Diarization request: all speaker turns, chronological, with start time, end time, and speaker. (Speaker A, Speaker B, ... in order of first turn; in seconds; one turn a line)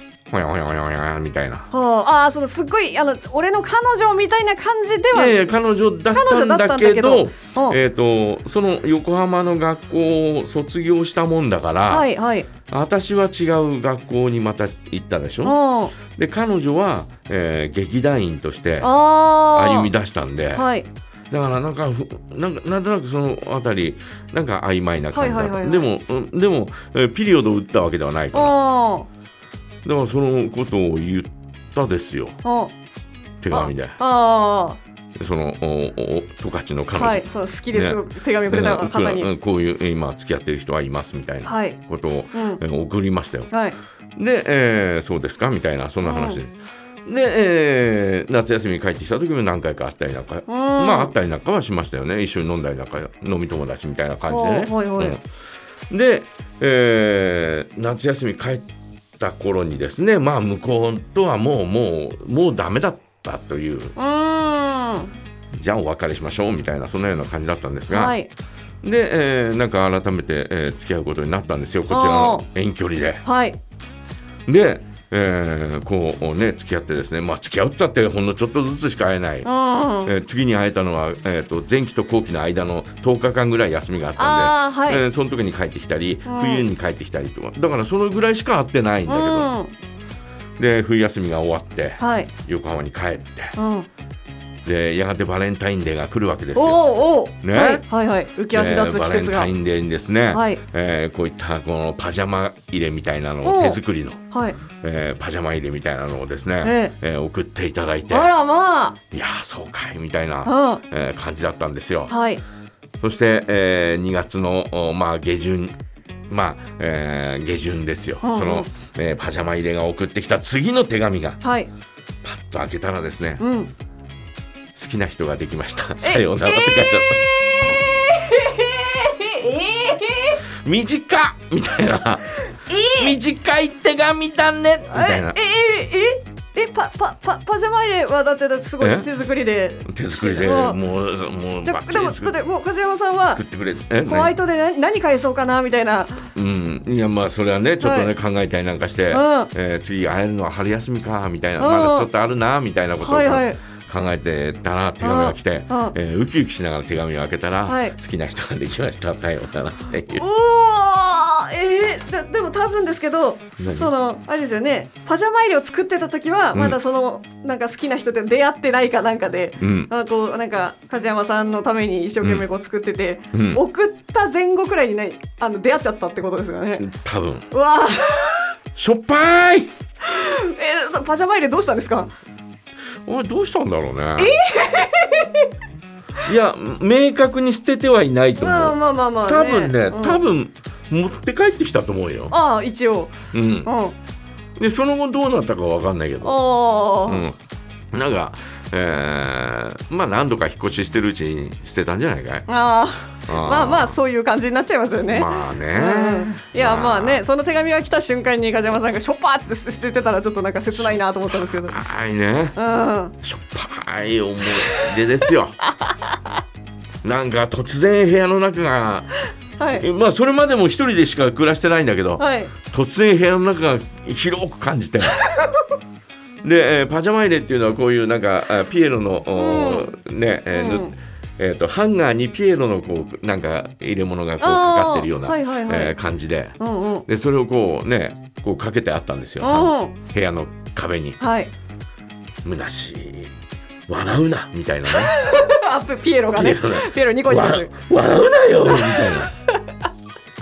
Speaker A: 0.3-1.7
Speaker B: 1.7-5.5
Speaker A: 5.1-12.1
Speaker B: 6.1-7.8
Speaker B: 11.9-12.5
Speaker A: 12.7-15.6
Speaker B: 15.4-16.0
Speaker A: 16.1-18.9
Speaker B: 18.8-19.9
Speaker A: 19.5-20.7
Speaker B: 20.5-20.9
Speaker A: 21.3-28.6
Speaker B: 25.1-25.9
Speaker B: 28.3-29.1
Speaker A: 29.9-32.4
Speaker B: 32.4-32.7
Speaker A: 33.4-34.0
Speaker B: 33.5-34.8
Speaker A: 35.2-43.5
Speaker B: 37.0-39.3
Speaker B: 41.5-41.8
Speaker B: 42.3-42.6
Speaker B: 43.5-43.8
Speaker A: 44.2-46.5
Speaker B: 46.0-46.4
Speaker A: 47.1-55.2
Speaker B: 50.5-51.1
Speaker B: 54.3-55.2
Speaker A: 55.9-58.7
Speaker A: 59.2-63.9
Speaker B: 64.0-65.1
Speaker A: 65.5-68.2
Speaker B: 67.9-68.3
Speaker A: 68.8-73.2
Speaker B: 71.9-72.5
Speaker B: 73.2-73.6
Speaker A: 74.5-79.5
Speaker B: 79.4-80.1
Speaker A: 80.1-89.5
Speaker B: 84.2-85.0
Speaker B: 86.3-86.7
Speaker B: 89.1-89.7
Speaker A: 90.6-93.5
Speaker B: 92.0-92.3
Speaker B: 93.6-93.9
Speaker A: 94.7-96.9
Speaker B: 96.5-99.5
Speaker A: 97.4-97.8
Speaker A: 98.5-104.2
Speaker B: 100.3-100.6
Speaker B: 103.4-103.8
Speaker B: 104.3-104.6
Speaker A: 104.8-108.3
Speaker B: 106.6-106.9
Speaker B: 108.1-109.0
Speaker A: 109.1-112.1
Speaker B: 110.5-110.8
Speaker B: 112.1-112.4
Speaker A: 113.0-115.8
Speaker A: 116.3-121.4
Speaker B: 118.2-118.7
Speaker B: 121.4-121.7
Speaker A: 122.2-123.4
Speaker B: 123.4-123.7
Speaker A: 124.8-127.2
Speaker B: 126.0-130.4
Speaker A: 130.6-132.4
Speaker B: 132.7-133.2
Speaker A: 132.9-135.4
Speaker B: 134.9-140.8
Speaker A: 138.8-139.1
Speaker A: 139.9-142.3
Speaker B: 141.7-143.4
Speaker A: 143.3-144.4
Speaker B: 144.0-146.3
Speaker A: 146.3-160.2
Speaker B: 147.8-148.1
Speaker B: 149.1-149.5
Speaker B: 151.6-152.1
Speaker B: 153.0-153.6
Speaker B: 155.0-155.9
Speaker B: 157.7-157.9
Speaker B: 160.1-176.8
Speaker A: 163.6-163.9
Speaker A: 166.5-166.8
Speaker A: 169.6-169.9
Speaker A: 173.3-173.6
Speaker A: 176.8-177.5
Speaker B: 177.5-178.5
Speaker A: 178.8-179.7
Speaker B: 180.0-182.1
Speaker A: 183.1-184.4
Speaker B: 184.2-185.5
Speaker A: 186.2-192.3
Speaker B: 188.4-190.2
Speaker B: 192.3-193.1
Speaker A: 193.3-193.7
Speaker B: 193.7-193.9
Speaker A: 194.6-196.4
Speaker B: 196.2-197.2
Speaker A: 197.1-197.4
Speaker A: 197.9-202.5
Speaker B: 202.5-211.8
Speaker A: 203.3-204.0
Speaker A: 205.1-207.2
Speaker A: 210.8-212.6
Speaker B: 212.6-213.2
Speaker A: 213.2-215.6
Speaker A: 217.0-219.2
Speaker B: 219.6-219.9
Speaker A: 219.7-225.3
Speaker B: 222.2-222.5
Speaker A: 226.4-236.6
Speaker B: 229.3-229.9
Speaker B: 230.5-230.9
Speaker B: 234.4-236.0
Speaker B: 236.6-237.1
Speaker A: 237.1-241.2
Speaker B: 239.4-239.9
Speaker B: 241.2-241.5
Speaker A: 242.4-243.3
Speaker A: 243.9-245.2
Speaker B: 245.1-247.8
Speaker A: 246.3-249.3
Speaker B: 248.7-249.3